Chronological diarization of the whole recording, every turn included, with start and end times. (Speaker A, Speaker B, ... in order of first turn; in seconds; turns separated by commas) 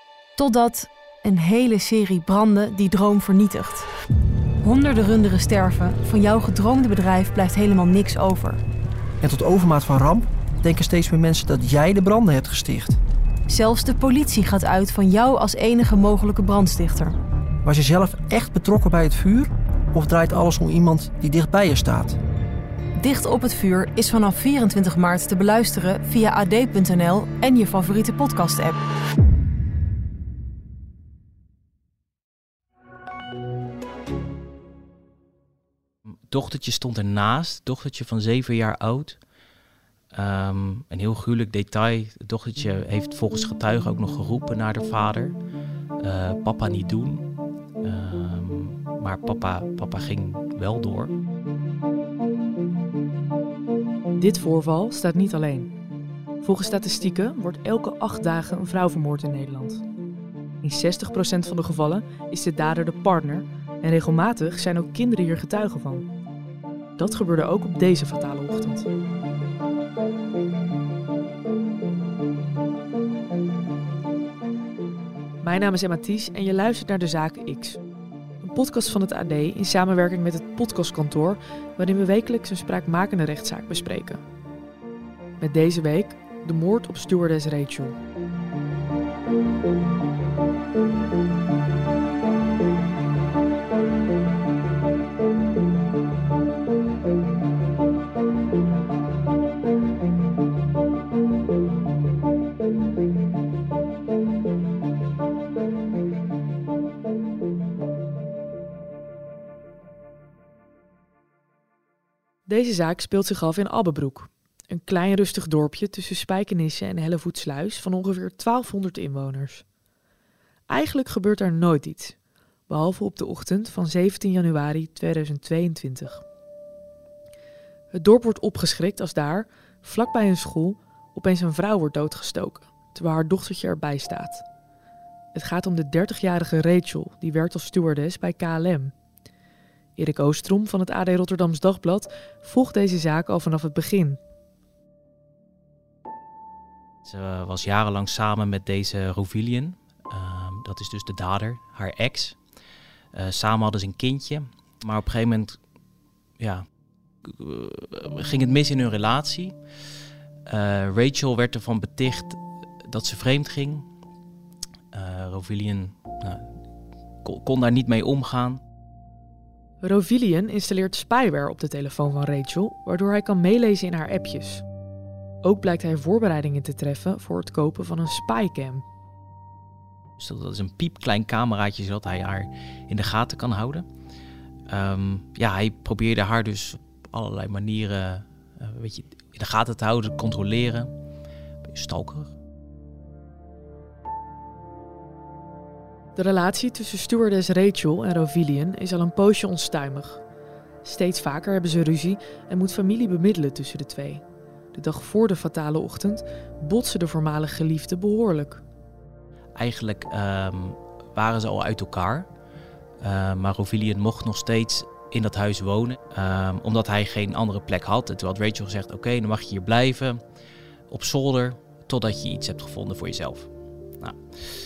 Speaker A: 0.4-3.9, Speaker A: 4.6-8.6, Speaker B: 9.2-13.0, Speaker A: 13.5-17.2, Speaker B: 17.6-22.2, Speaker A: 23.0-28.8, Speaker C: 36.3-39.2, Speaker C: 40.1-45.4, Speaker C: 46.0-47.3, Speaker C: 47.8-51.1, Speaker D: 54.1-55.7, Speaker D: 56.4-59.8, Speaker D: 60.6-66.1, Speaker D: 67.0-68.9, Speaker D: 75.4-77.8, Speaker D: 78.4-84.2, Speaker D: 85.4-88.0, Speaker D: 112.5-119.6, Speaker D: 120.7-122.2, Speaker D: 122.7-126.2, Speaker D: 127.9-134.4, Speaker D: 135.3-138.9, Speaker D: 140.0-144.2, Speaker C: 147.1-152.4, Speaker C: 153.1-155.6, Speaker C: 156.4-156.7, Speaker C: 157.2-159.6, Speaker C: 160.5-163.9, Speaker C: 164.9-166.5, Speaker C: 167.2-168.6, Speaker D: 169.8-174.6, Speaker D: 175.4-178.8, Speaker C: 180.2-183.9, Speaker C: 184.7-190.9, Speaker C: 191.7-192.3, Speaker D: 196.2-200.2, Speaker D: 200.8-208.6, Speaker C: 209.6-212.3, Speaker C: 213.0-220.2, Speaker C: 220.9-224.2